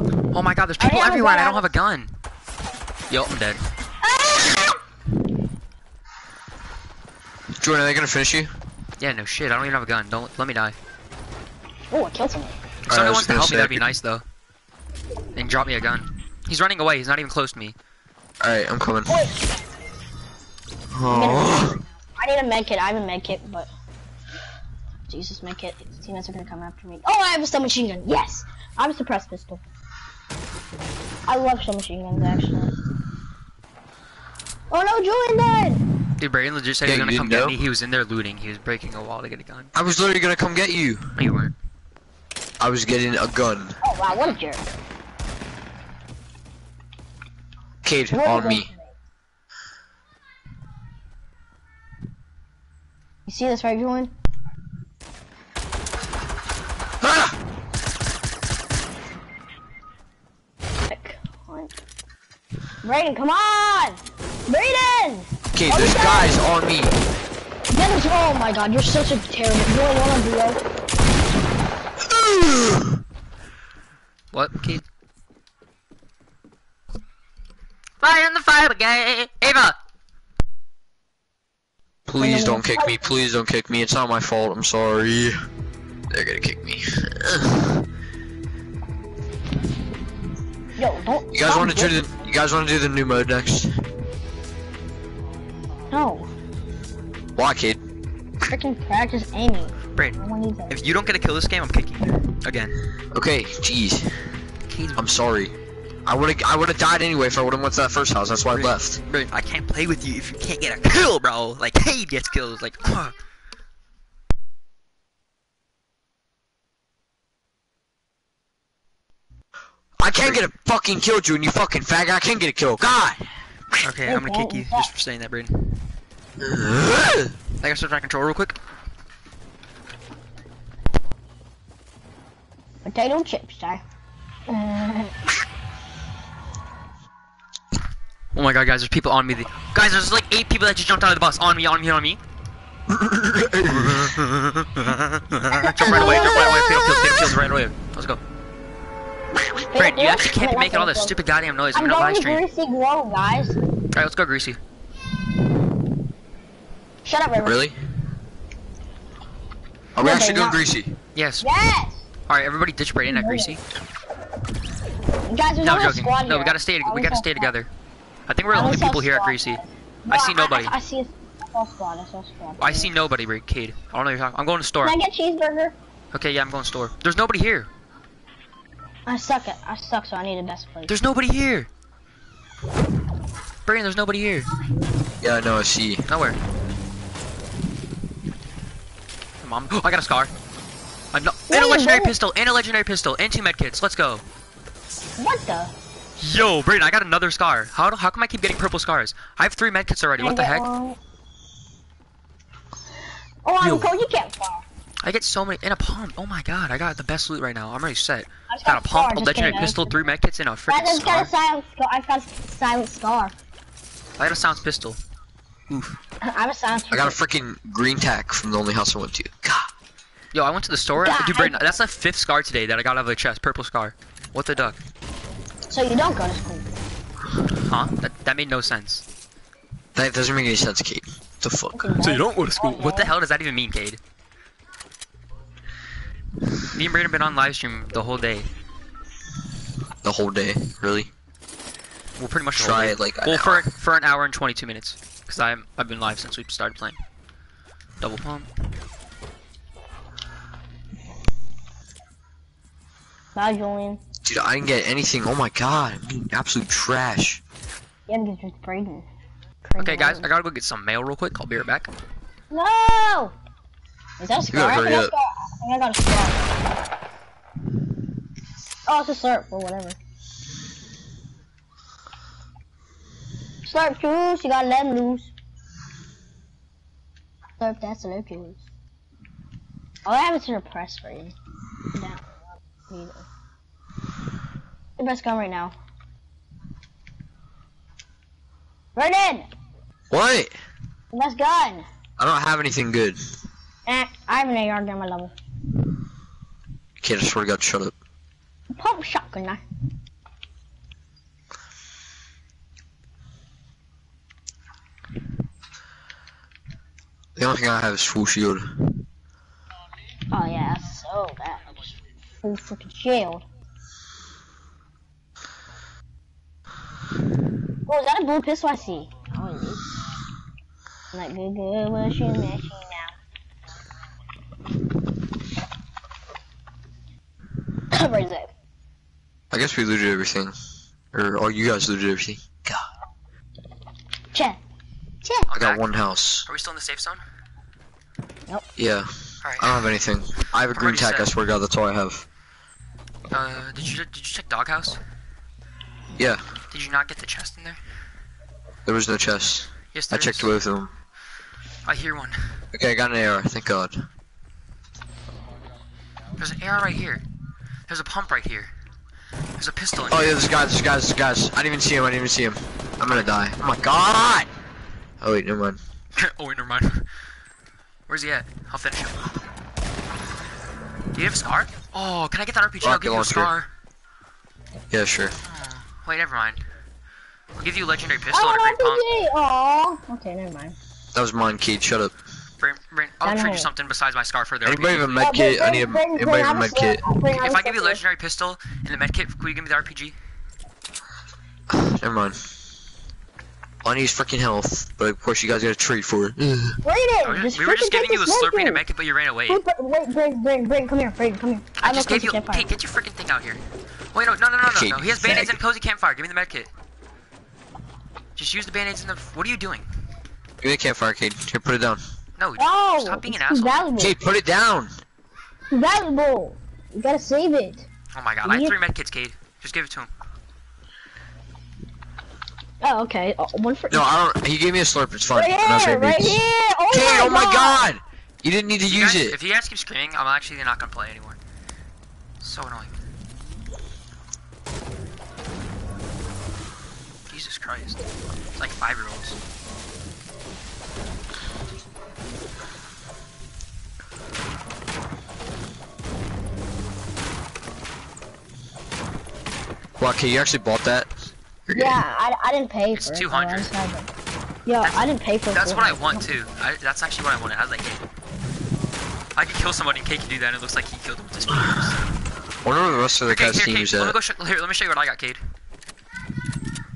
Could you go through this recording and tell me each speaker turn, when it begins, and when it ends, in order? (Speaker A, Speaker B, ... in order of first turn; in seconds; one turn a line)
Speaker A: 0.3-2.2
Speaker B: 0.8-1.7
Speaker A: 3.1-3.6
Speaker B: 4.0-4.8
Speaker C: 7.6-8.5
Speaker A: 9.0-10.8
Speaker B: 11.9-12.6
Speaker A: 12.8-14.2
Speaker C: 12.9-13.8
Speaker A: 15.4-17.8
Speaker C: 18.4-19.2
Speaker B: 19.1-19.4
Speaker C: 20.9-21.8
Speaker B: 21.1-23.7
Speaker B: 25.1-29.6
Speaker B: 31.3-32.8
Speaker B: 34.7-35.9
Speaker A: 36.2-39.7
Speaker C: 36.8-37.6
Speaker C: 39.7-41.1
Speaker A: 41.2-41.5
Speaker C: 42.6-43.8
Speaker B: 43.8-44.6
Speaker C: 47.8-48.7
Speaker B: 48.1-48.9
Speaker B: 53.3-54.1
Speaker C: 57.0-57.4
Speaker B: 60.9-61.7
Speaker B: 62.8-66.4
Speaker C: 65.5-67.0
Speaker B: 67.7-70.7
Speaker C: 72.1-73.0
Speaker A: 74.3-74.8
Speaker A: 78.0-79.8
Speaker C: 82.1-85.5
Speaker B: 82.2-83.1
Speaker C: 86.1-87.9
Speaker B: 90.8-92.0
Speaker C: 91.3-93.8
Speaker B: 95.9-96.3
Speaker C: 97.4-97.8
Speaker B: 98.4-100.7
Speaker A: 100.7-102.8
Speaker C: 103.1-104.3
Speaker A: 104.7-105.1
Speaker C: 105.0-105.5
Speaker C: 106.1-109.0
Speaker A: 108.5-113.2
Speaker C: 120.0-123.3
Speaker A: 123.8-125.9
Speaker B: 124.1-124.9
Speaker C: 126.4-127.4
Speaker A: 127.6-128.6
Speaker B: 132.8-133.8
Speaker B: 134.5-135.2
Speaker A: 138.3-142.2
Speaker C: 142.9-144.2
Speaker A: 143.7-148.2
Speaker B: 145.6-146.9
Speaker B: 149.7-151.2
Speaker A: 149.7-152.4
Speaker B: 151.7-153.6
Speaker A: 153.9-154.6
Speaker B: 157.1-157.6
Speaker C: 157.4-157.8
Speaker C: 159.9-161.0
Speaker B: 160.0-160.6
Speaker A: 161.2-161.5
Speaker B: 161.4-162.0
Speaker A: 162.3-163.6
Speaker B: 163.1-163.6
Speaker B: 165.3-167.5
Speaker A: 165.6-167.7
Speaker A: 168.3-170.7
Speaker B: 168.5-172.9
Speaker A: 172.6-175.0
Speaker B: 174.8-175.8
Speaker A: 176.1-177.7
Speaker B: 179.1-180.9
Speaker A: 180.9-181.7
Speaker A: 183.7-184.5
Speaker C: 185.2-186.1
Speaker A: 186.1-186.4
Speaker A: 189.4-190.3
Speaker A: 191.1-194.2
Speaker B: 191.5-192.1
Speaker B: 195.2-195.7
Speaker A: 196.2-200.7
Speaker B: 200.2-201.0
Speaker B: 203.4-204.7
Speaker A: 203.6-203.9
Speaker A: 205.0-211.3
Speaker B: 208.5-209.9
Speaker B: 210.7-213.3
Speaker A: 214.2-215.0
Speaker A: 215.7-216.0
Speaker B: 216.2-217.2
Speaker C: 216.9-219.7
Speaker A: 220.3-224.8
Speaker B: 221.0-221.7
Speaker B: 225.7-226.7
Speaker A: 227.6-229.0
Speaker C: 229.9-231.9
Speaker B: 231.8-233.1
Speaker A: 232.0-234.0
Speaker A: 236.7-238.5
Speaker C: 240.0-241.1
Speaker A: 242.2-247.0
Speaker C: 242.6-243.7
Speaker A: 248.0-248.5
Speaker B: 253.3-254.0
Speaker C: 254.2-257.4
Speaker B: 258.1-259.1
Speaker B: 259.6-260.3
Speaker A: 259.8-261.9
Speaker B: 262.5-263.4
Speaker B: 264.2-266.4
Speaker C: 264.5-265.1
Speaker B: 268.9-270.0
Speaker B: 273.6-275.3
Speaker B: 277.6-278.6
Speaker B: 280.1-281.3
Speaker B: 281.9-282.3
Speaker B: 282.9-283.3
Speaker B: 285.0-285.7
Speaker B: 288.9-289.5
Speaker C: 290.1-290.6
Speaker B: 291.1-291.9
Speaker C: 292.2-293.2
Speaker B: 293.9-295.3
Speaker C: 297.0-297.9
Speaker B: 298.8-299.6
Speaker C: 307.4-308.9
Speaker B: 310.3-313.4
Speaker B: 317.9-319.9
Speaker B: 321.1-323.1
Speaker B: 327.9-328.5
Speaker C: 329.5-330.6
Speaker C: 331.1-332.9
Speaker B: 334.3-334.6
Speaker A: 335.5-335.9
Speaker C: 335.5-336.5
Speaker A: 336.5-337.2
Speaker C: 338.8-342.3
Speaker A: 339.4-340.0
Speaker A: 340.7-341.3
Speaker A: 343.3-345.0
Speaker A: 346.7-347.8
Speaker C: 348.9-350.9
Speaker A: 349.9-350.6
Speaker A: 351.9-352.6
Speaker C: 352.7-354.1
Speaker A: 356.4-357.2
Speaker A: 357.9-358.7
Speaker A: 359.6-360.4
Speaker C: 360.1-364.5
Speaker C: 365.2-365.8
Speaker A: 366.2-367.1
Speaker A: 368.1-369.3
Speaker A: 371.1-373.7
Speaker C: 372.8-373.5
Speaker C: 374.9-375.4
Speaker A: 376.0-376.6
Speaker A: 377.6-379.0
Speaker B: 378.3-380.8
Speaker C: 381.1-382.1
Speaker A: 382.6-385.3
Speaker B: 383.2-383.7
Speaker C: 384.6-387.0
Speaker B: 385.1-388.0
Speaker A: 387.3-390.2
Speaker C: 391.7-392.5
Speaker C: 393.8-396.8
Speaker B: 396.8-398.8
Speaker A: 397.2-399.6
Speaker B: 399.5-402.7
Speaker A: 401.8-403.6
Speaker A: 404.1-406.7
Speaker C: 404.6-405.6
Speaker A: 408.4-409.9
Speaker C: 410.6-412.0
Speaker A: 412.4-413.9
Speaker B: 412.6-414.2
Speaker C: 414.0-414.9
Speaker B: 415.7-417.9
Speaker A: 418.1-420.1
Speaker B: 418.4-418.8
Speaker B: 422.8-424.1
Speaker C: 423.9-429.4
Speaker B: 425.4-427.9
Speaker A: 428.8-431.4
Speaker A: 432.4-433.0
Speaker A: 437.3-438.0
Speaker A: 438.6-439.4
Speaker C: 450.0-452.0
Speaker B: 451.8-454.1
Speaker A: 452.9-453.7
Speaker B: 454.7-456.2
Speaker A: 454.8-458.1
Speaker A: 459.4-462.0
Speaker C: 462.6-464.2
Speaker A: 463.3-465.4